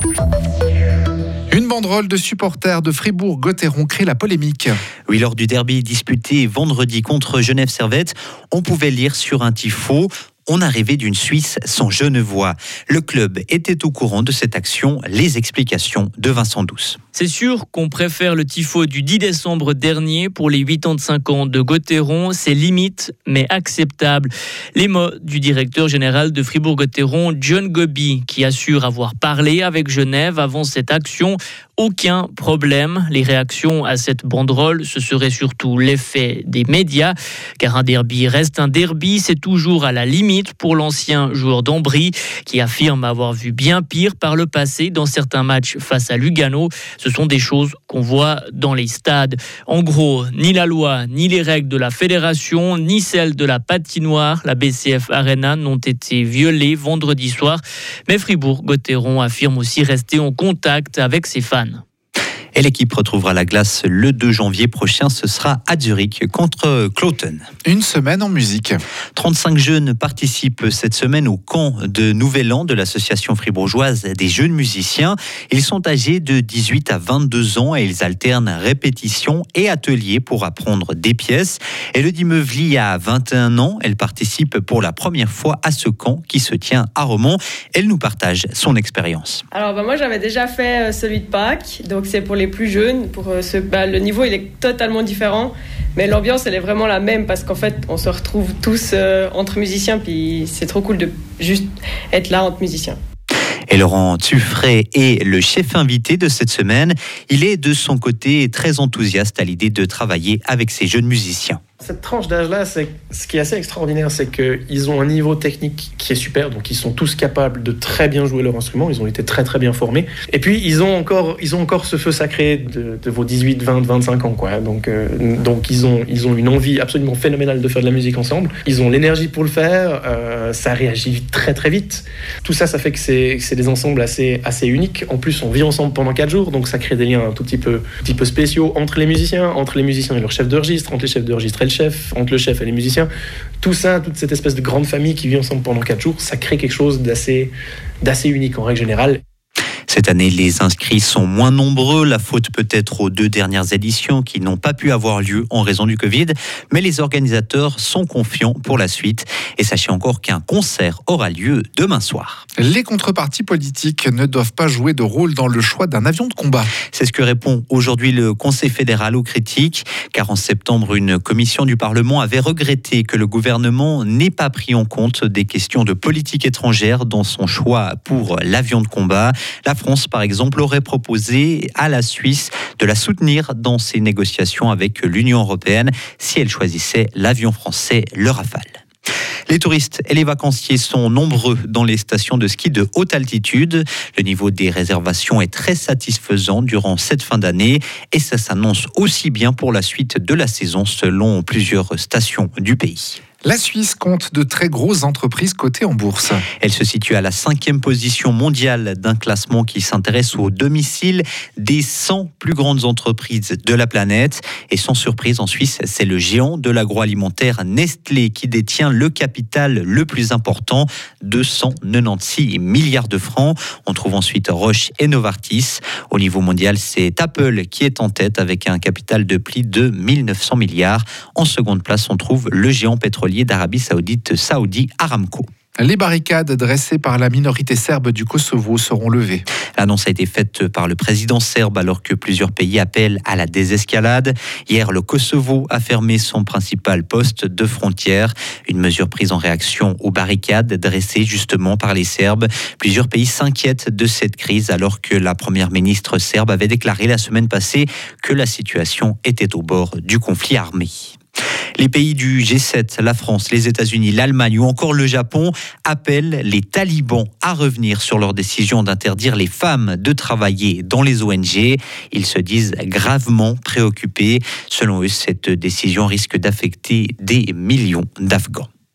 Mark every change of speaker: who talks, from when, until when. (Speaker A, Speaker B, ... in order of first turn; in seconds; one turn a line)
Speaker A: 1.5-4.8
Speaker B: 5.1-17.0
Speaker C: 17.1-61.8
Speaker B: 62.5-67.5
Speaker A: 67.7-68.8
Speaker B: 69.2-89.4
Speaker D: 89.5-103.0
Speaker B: 103.7-111.6
Speaker E: 111.8-143.1
Speaker E: 143.6-147.5
Speaker E: 148.0-149.2
Speaker B: 149.9-162.4
Speaker A: 162.6-166.7
Speaker B: 166.9-188.8
Speaker B: 189.5-203.2
Speaker A: 203.4-206.4
Speaker B: 206.6-235.5
Speaker A: 235.8-239.4
Speaker B: 239.8-261.2
Speaker B: 261.8-278.7